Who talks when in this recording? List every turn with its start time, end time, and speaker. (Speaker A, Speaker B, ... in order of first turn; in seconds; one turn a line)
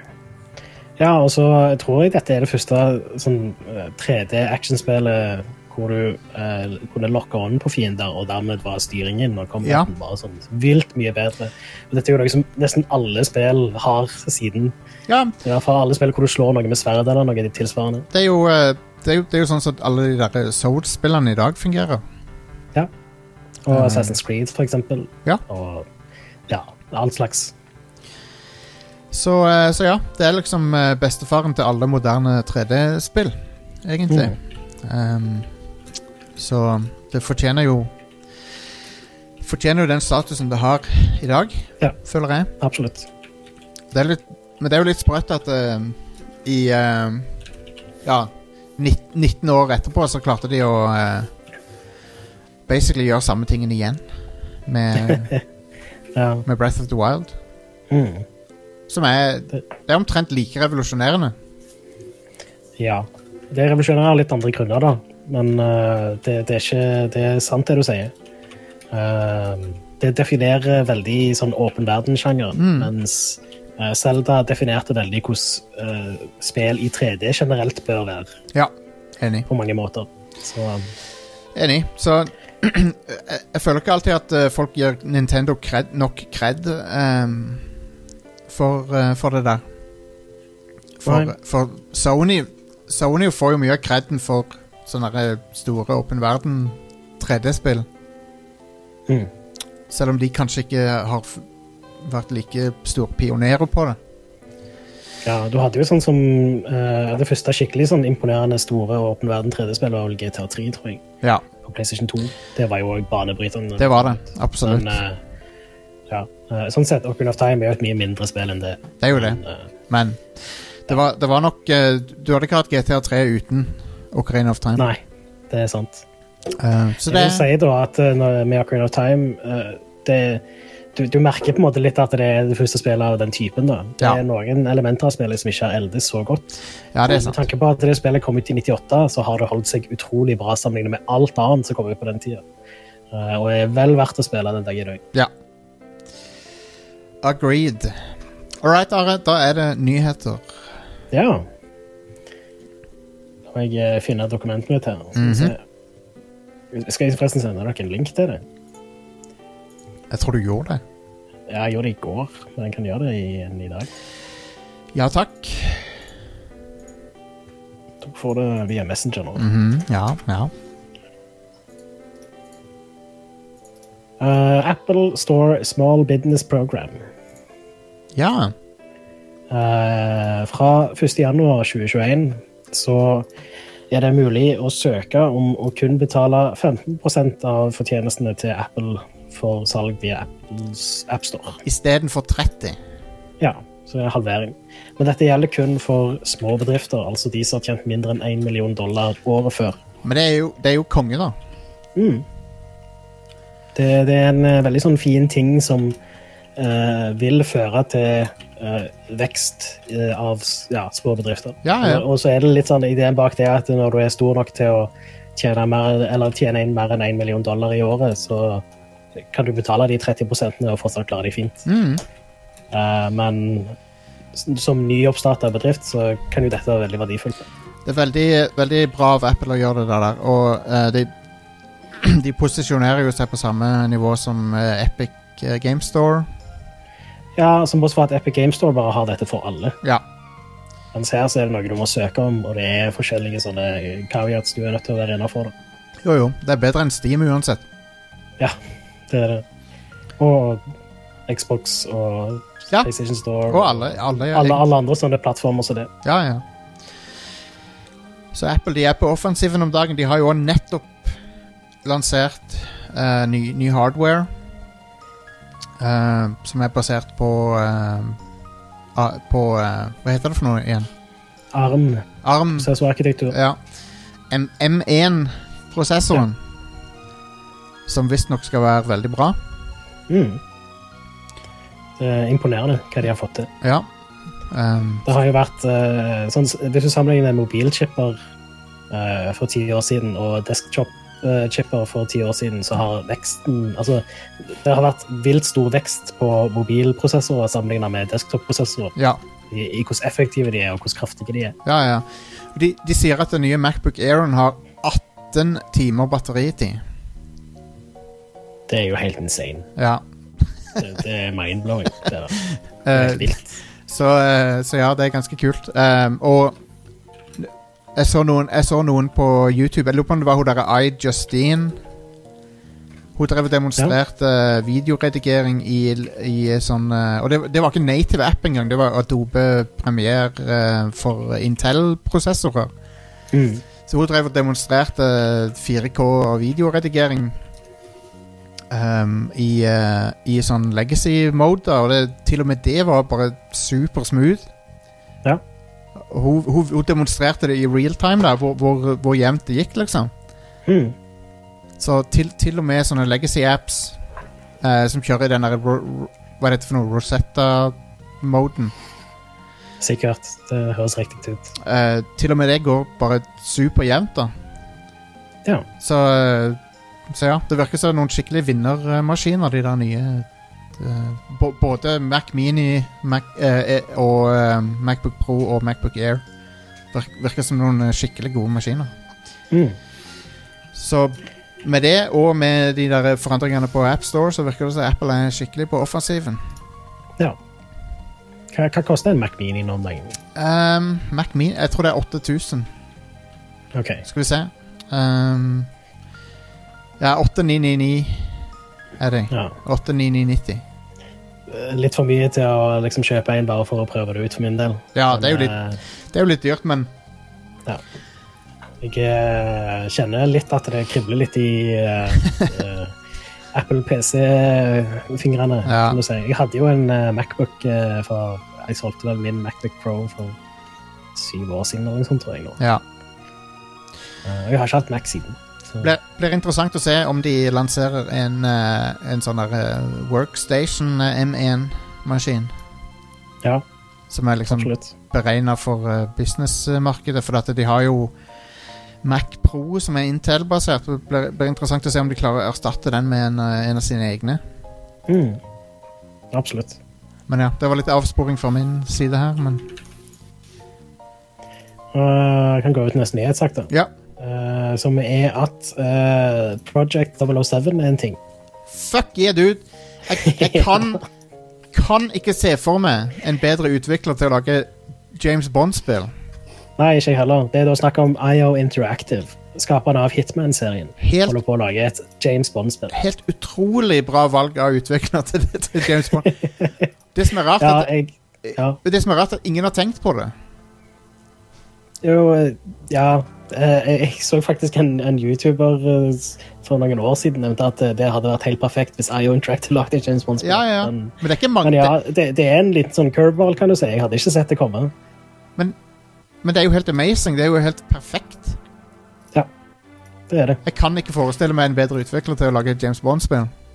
Speaker A: 1.0-14.7
Speaker B: 9.6-9.9
Speaker B: 15.1-15.3
Speaker A: 15.4-18.1
Speaker B: 18.1-22.0
Speaker A: 23.6-25.9
Speaker B: 23.7-24.2
Speaker A: 26.5-27.5
Speaker B: 29.1-35.5
Speaker A: 34.1-34.4
Speaker B: 36.4-37.9
Speaker B: 39.4-42.5
Speaker A: 42.6-43.1
Speaker B: 43.9-47.3
Speaker B: 48.0-51.3
Speaker B: 52.7-54.0
Speaker B: 54.6-55.3
Speaker A: 55.1-55.3
Speaker A: 56.1-56.4
Speaker B: 56.4-57.4
Speaker A: 57.9-58.2
Speaker B: 58.9-61.3
Speaker A: 62.8-68.1
Speaker A: 68.9-78.3
Speaker B: 72.5-72.9
Speaker B: 78.5-79.5
Speaker A: 79.5-80.9
Speaker B: 81.5-87.6
Speaker B: 88.5-89.6
Speaker B: 91.0-97.8
Speaker A: 91.0-91.3
Speaker B: 99.9-101.5
Speaker B: 102.0-104.0
Speaker A: 105.2-111.0
Speaker A: 111.6-115.2
Speaker B: 113.8-115.0
Speaker A: 116.1-119.6
Speaker B: 119.0-124.9
Speaker A: 124.8-126.0
Speaker B: 126.6-127.5
Speaker A: 127.1-130.4
Speaker A: 130.9-136.5
Speaker B: 136.9-137.4
Speaker A: 137.1-142.4
Speaker A: 143.1-145.0
Speaker B: 147.2-148.0
Speaker B: 148.6-150.6
Speaker A: 151.1-151.4
Speaker A: 153.5-155.6
Speaker B: 155.2-155.5
Speaker A: 156.7-158.4
Speaker B: 160.1-160.8
Speaker A: 161.5-163.9
Speaker B: 164.9-165.9
Speaker A: 168.0-169.4
Speaker B: 169.3-170.5
Speaker A: 174.2-177.0
Speaker B: 178.2-178.5
Speaker A: 179.5-183.3
Speaker A: 183.9-191.6
Speaker B: 191.6-192.8
Speaker A: 193.4-199.8
Speaker B: 200.0-201.3
Speaker A: 201.9-202.2
Speaker A: 203.7-206.0
Speaker A: 206.6-218.6
Speaker B: 211.6-212.0
Speaker A: 219.2-221.7
Speaker B: 221.7-222.0
Speaker A: 222.7-223.8
Speaker A: 224.3-227.4
Speaker B: 227.8-231.1
Speaker B: 232.0-236.3
Speaker A: 237.3-239.8
Speaker A: 240.9-245.5
Speaker B: 246.0-247.6
Speaker A: 249.1-249.4
Speaker A: 250.2-250.6
Speaker A: 251.3-255.9
Speaker B: 253.5-254.6
Speaker B: 256.0-256.4
Speaker B: 258.3-261.1
Speaker B: 261.8-264.3
Speaker B: 265.8-268.2
Speaker B: 268.9-270.9
Speaker A: 271.5-272.1
Speaker B: 272.2-272.7
Speaker A: 272.6-273.3
Speaker B: 273.3-273.6
Speaker B: 274.3-276.4
Speaker B: 277.9-279.4
Speaker A: 280.1-280.4
Speaker A: 282.0-283.5
Speaker B: 283.6-283.9
Speaker B: 284.5-285.1
Speaker A: 285.0-288.2
Speaker A: 288.9-298.9
Speaker A: 299.5-301.6
Speaker B: 301.6-306.8
Speaker A: 308.7-309.7
Speaker B: 309.8-310.0
Speaker A: 310.8-312.4
Speaker B: 312.4-313.4
Speaker A: 312.9-313.6
Speaker B: 313.9-316.6
Speaker B: 317.4-321.8
Speaker B: 323.2-332.7
Speaker A: 333.3-333.6
Speaker B: 333.9-337.4
Speaker B: 338.7-344.5
Speaker B: 346.1-350.1
Speaker A: 350.6-350.9
Speaker B: 351.8-354.0
Speaker B: 354.6-358.7
Speaker A: 359.8-361.5
Speaker B: 361.6-364.3
Speaker B: 365.8-366.6
Speaker B: 367.1-376.2
Speaker B: 376.9-378.9
Speaker A: 379.5-379.8
Speaker B: 380.7-386.4
Speaker A: 388.5-390.2
Speaker B: 390.3-392.7
Speaker A: 393.7-394.0
Speaker B: 394.0-395.7
Speaker B: 397.0-398.3
Speaker B: 399.0-400.6
Speaker A: 401.5-405.8
Speaker B: 404.9-405.6
Speaker B: 406.1-406.9
Speaker A: 408.8-412.9
Speaker A: 413.5-420.4
Speaker B: 415.6-416.0
Speaker A: 421.1-422.6
Speaker A: 424.2-425.9
Speaker B: 425.8-432.5
Speaker B: 434.1-438.1
Speaker A: 434.5-434.9
Speaker B: 439.0-444.4
Speaker A: 445.1-445.4
Speaker A: 446.3-446.8
Speaker B: 447.3-449.7
Speaker A: 451.9-458.2
Speaker B: 458.7-461.0
Speaker A: 460.2-460.9
Speaker B: 461.7-466.1
Speaker A: 466.8-472.9
Speaker B: 471.0-471.4
Speaker B: 472.9-476.3
Speaker A: 476.2-476.8
Speaker B: 477.1-477.9
Speaker A: 477.6-478.8
Speaker B: 478.4-480.3
Speaker A: 482.0-494.9
Speaker B: 490.4-491.9
Speaker B: 496.4-498.6
Speaker A: 500.3-500.6
Speaker B: 500.6-503.5